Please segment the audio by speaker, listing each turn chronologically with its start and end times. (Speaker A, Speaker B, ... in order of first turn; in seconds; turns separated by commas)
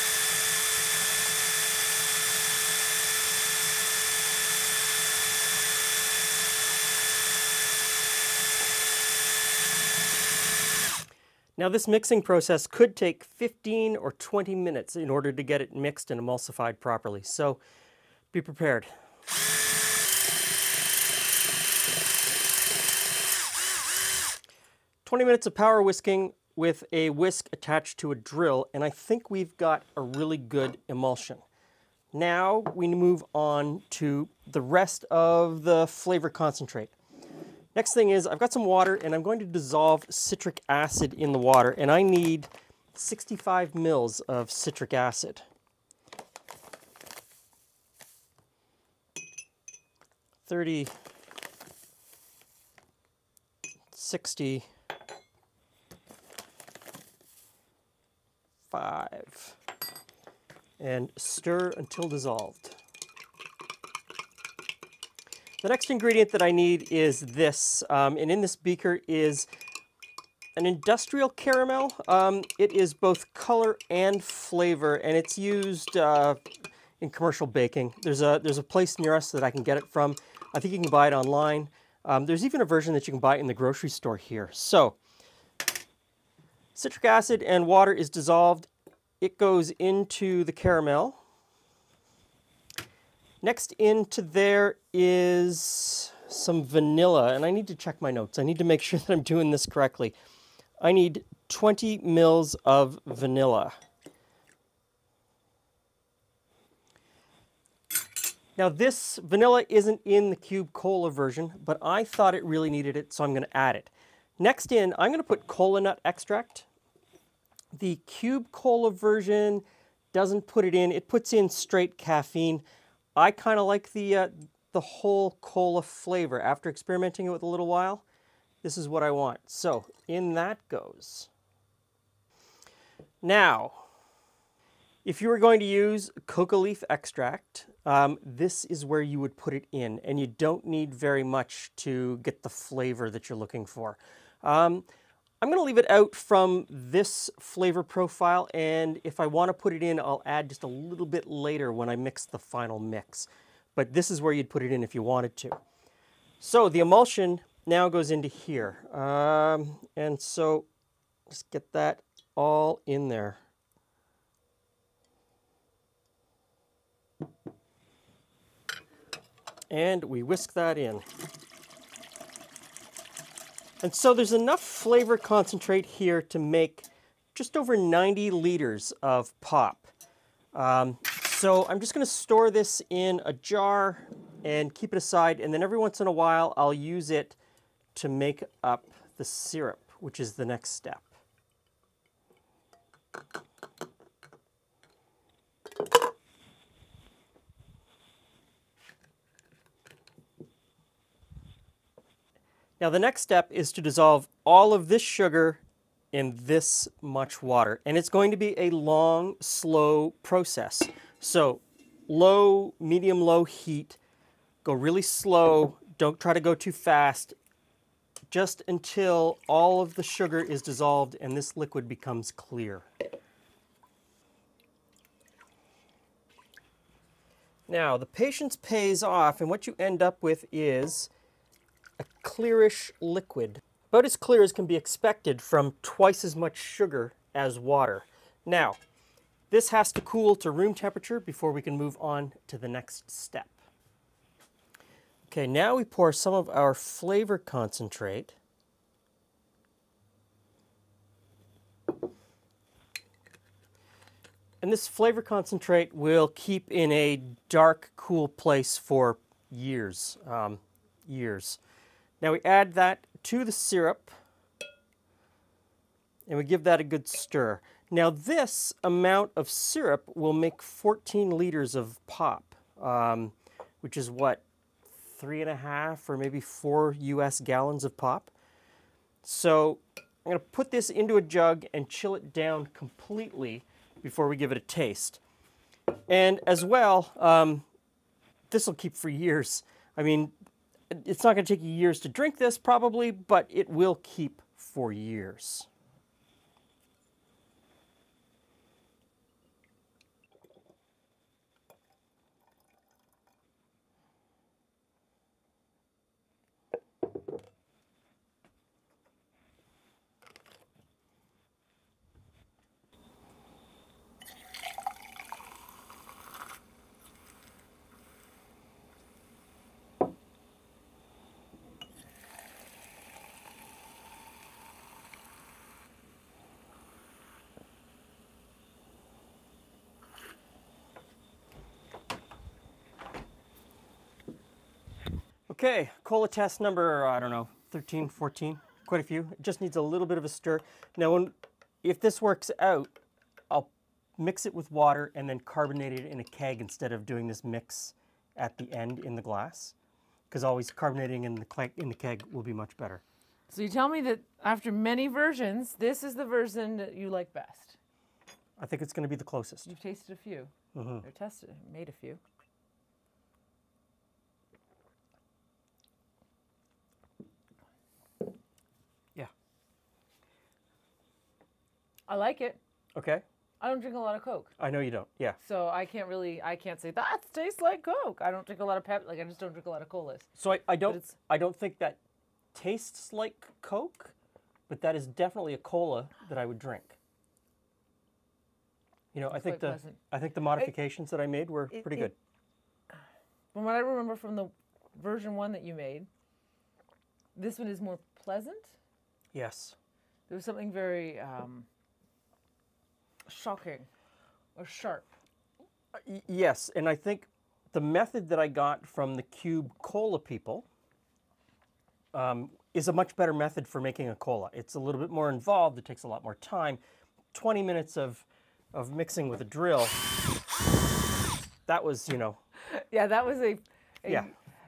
Speaker A: 11.6-17.6, Speaker A: 18.3-18.9, Speaker A: 25.1-31.4, Speaker A: 32.1-36.9, Speaker A: 37.8-45.5, Speaker A: 50.5-50.9, Speaker A: 53.9-54.7, Speaker A: 58.7-59.6, Speaker A: 60.8-62.8, Speaker A: 65.6-69.5, Speaker A: 70.6-76.4, Speaker A: 77.0-85.0, Speaker A: 86.8-88.7, Speaker A: 89.2-91.2, Speaker A: 93.4-100.2, Speaker A: 100.8-103.8, Speaker A: 108.6-116.7, Speaker A: 117.7-122.6, Speaker A: 123.2-128.0, Speaker A: 128.6-131.3, Speaker A: 133.2-133.9, Speaker A: 135.1-144.9, Speaker A: 145.4-155.6, Speaker A: 156.4-160.7, Speaker A: 161.3-163.4, Speaker A: 169.7-171.1, Speaker A: 173.8-179.9, Speaker A: 180.5-187.4, Speaker A: 187.9-191.1, Speaker A: 202.8-205.6, Speaker A: 206.1-214.0, Speaker A: 214.6-217.4, Speaker A: 218.3-222.9, Speaker A: 227.7-231.1, Speaker A: 232.0-238.8, Speaker A: 239.5-243.6, Speaker A: 245.3-248.4, Speaker A: 254.6-261.6, Speaker A: 262.2-264.1, Speaker A: 266.3-278.3, Speaker A: 279.2-285.2, Speaker A: 286.1-287.7, Speaker A: 288.5-290.3, Speaker A: 290.9-295.7, Speaker A: 335.5-342.9, Speaker A: 343.5-349.8, Speaker A: 350.3-353.0, Speaker B: 353.5-357.8, Speaker A: 358.6-359.7, Speaker B: 359.7-360.5, Speaker A: 360.7-361.1, Speaker B: 361.0-362.2, Speaker B: 372.1-372.6, Speaker A: 372.9-373.2, Speaker B: 373.6-374.5, Speaker A: 374.6-375.4, Speaker B: 375.4-380.3, Speaker A: 380.4-382.0, Speaker A: 382.5-384.1, Speaker A: 384.7-387.0, Speaker A: 389.1-392.1, Speaker B: 389.3-390.0, Speaker B: 393.5-396.1, Speaker B: 397.4-398.8, Speaker A: 399.3-399.8, Speaker B: 400.3-401.7, Speaker B: 403.3-403.9, Speaker B: 404.6-405.1, Speaker A: 405.9-410.7, Speaker A: 412.1-416.8, Speaker A: 417.3-420.0, Speaker A: 421.7-422.4, Speaker B: 422.7-424.3